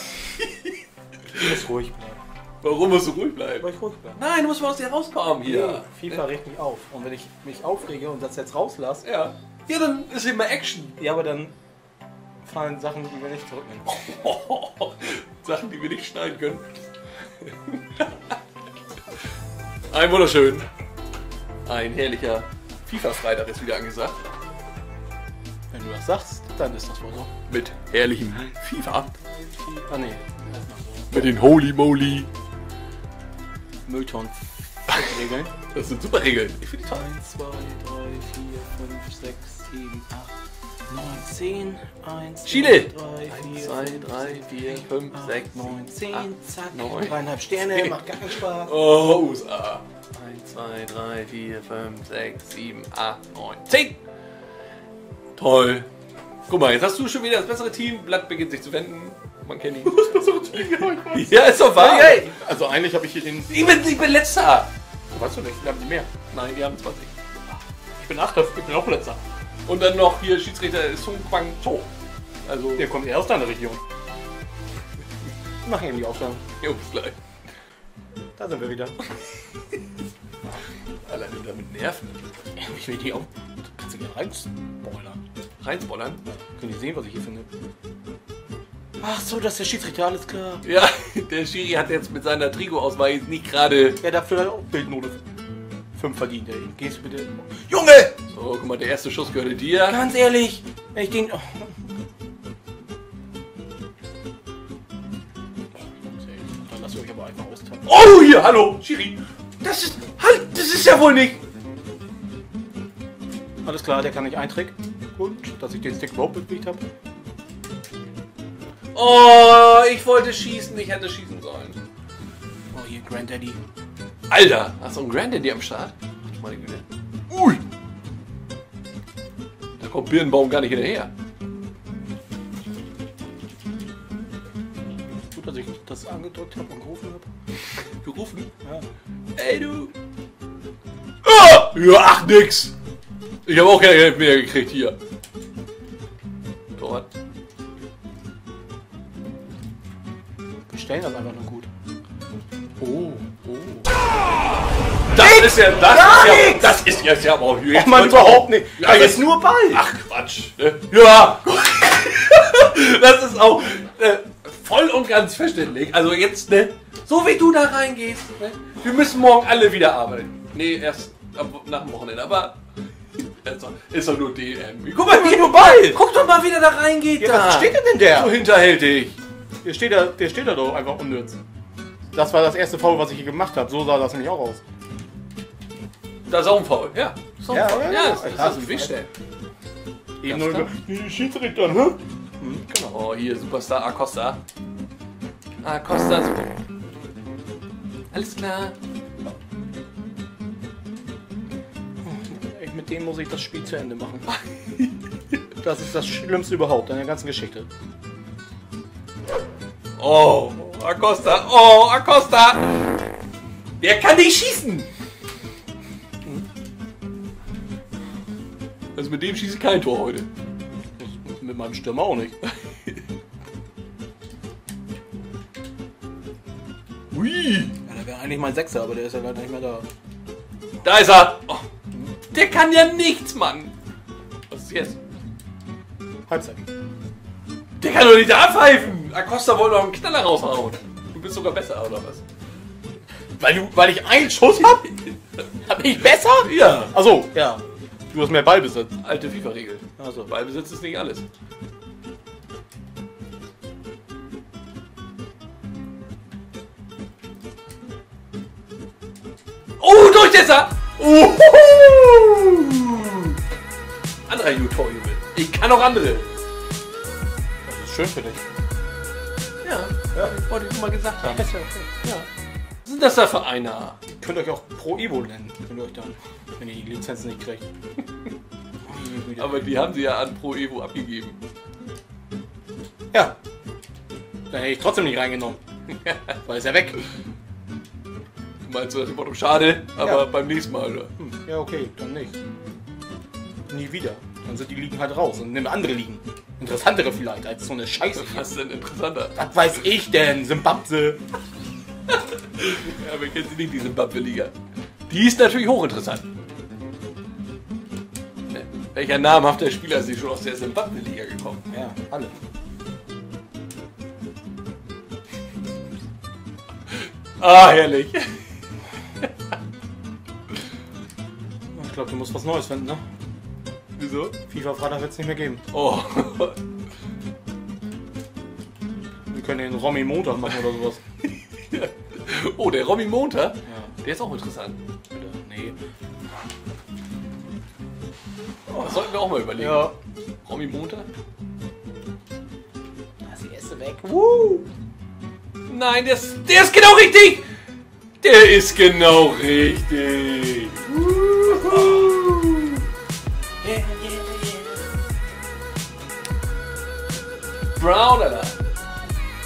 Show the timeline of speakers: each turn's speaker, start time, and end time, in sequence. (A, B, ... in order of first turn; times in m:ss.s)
0:00.4-0:00.7 A
0:01.3-0:02.2 B
0:02.6-0:06.2 A
0:03.6-0:04.2 B
0:05.4-0:09.0 B
0:09.0-0:11.0 A
0:11.0-0:11.5 B
0:12.4-0:14.0 B
0:13.9-0:16.7 A
0:17.4-0:18.3 A
0:19.9-0:20.6 A
0:21.6-0:24.1 A
0:25.7-0:27.3 B
0:27.5-0:29.2 A
0:29.2-0:31.1 B
0:31.1-0:32.3 A
0:33.8-0:35.5 B
0:35.6-0:36.8 A
0:36.7-0:40.3 B
0:40.9-0:48.7 B
0:42.4-0:48.0 A
0:48.6-0:54.0 A
0:55.4-0:55.9 A
0:56.5-1:02.4 A
0:59.8-1:03.8 B
1:03.5-1:04.7 A
1:05.1-1:06.1 B
1:06.3-1:07.1 A
1:08.0-1:09.2 B
1:09.6-1:11.9 A
1:12.4-1:12.9 A
1:12.8-1:13.8 B
1:15.6-1:16.4 B
1:16.6-1:17.1 A
1:18.4-1:19.0 B
1:21.0-1:22.1 A
1:22.6-1:25.2 B
1:25.6-1:26.2 A
1:26.3-1:27.5 B
1:29.0-1:30.6 B
1:30.6-1:34.0 A
1:34.0-1:35.2 B
1:35.9-1:38.1 B
1:38.2-1:40.0 A
1:39.8-1:41.7 B
1:45.7-1:47.9 B
1:47.8-1:51.4 A
1:53.6-1:56.8 B
1:58.9-2:01.8 A
2:02.7-2:03.6 B
2:04.3-2:07.6 A
2:09.8-2:11.1 A
2:15.3-2:17.3 B
2:18.0-2:18.5 A
2:19.4-2:19.9 A
2:21.2-2:22.7 A
2:23.4-2:25.0 A
2:26.8-2:27.1 A
2:30.7-2:31.7 B
2:32.8-2:33.2 B
2:33.2-2:33.9 A
2:35.1-2:52.6 A
2:35.1-2:36.8 B
2:37.7-2:40.0 B
2:53.2-2:59.2 A
2:55.1-2:56.0 B
2:57.2-2:58.4 B
2:59.6-3:01.4 B
3:02.1-3:04.6 B
3:06.3-3:09.1 A
3:07.5-3:08.9 B
3:10.2-3:13.0 B
3:10.2-3:10.7 A
3:12.9-3:14.4 A
3:15.6-3:16.6 A
3:18.1-3:18.8 A
3:22.0-3:24.3 B
3:24.3-3:24.9 A
3:25.6-3:27.7 B
3:30.0-3:33.0 A
3:33.8-3:34.9 A
3:38.9-3:40.3 A
3:41.0-3:42.4 B
3:42.4-3:43.0 A
3:47.1-3:47.8 A
3:47.9-3:49.9 B
3:50.8-3:51.6 A
3:52.3-3:53.7 A
3:54.5-3:55.0 A
3:56.3-3:56.7 B
3:57.8-4:02.2 A
4:03.4-4:04.9 B
4:05.6-4:09.0 B
4:06.4-4:07.0 A
4:09.0-4:11.2 A
4:10.0-4:10.3 B
4:19.8-4:23.4 A
4:24.3-4:26.3 A
4:27.6-4:28.4 B
4:29.6-4:31.5 A
4:31.2-4:31.9 B
4:32.8-4:34.0 A
4:34.1-4:37.6 B
4:38.8-4:39.7 B
4:39.4-4:41.4 A
4:44.5-4:45.6 B
4:46.4-4:47.0 B
4:48.6-4:51.1 A
4:50.0-4:50.2 B
4:51.2-4:52.3 B
4:53.7-4:58.5 B
4:58.1-4:59.4 A
4:59.3-5:01.2 B
5:02.4-5:04.5 A
5:05.1-5:06.2 A
5:08.5-5:11.6 A
5:11.7-5:12.3 B
5:16.9-5:18.3 A
5:21.7-5:23.0 B
5:24.0-5:24.4 A
5:24.5-5:25.6 B
5:25.7-5:26.6 A
5:29.3-5:31.0 B
5:31.7-5:34.8 A
5:33.7-5:33.9 B
5:35.1-5:35.8 B
5:38.7-5:39.0 B
5:38.7-5:39.9 A
5:39.6-5:39.9 B
5:40.4-5:41.1 A
5:43.2-5:44.0 B
5:44.0-5:44.6 A
5:45.7-5:47.4 A
5:48.2-5:52.8 A
5:53.6-5:54.8 A
5:57.7-5:58.6 A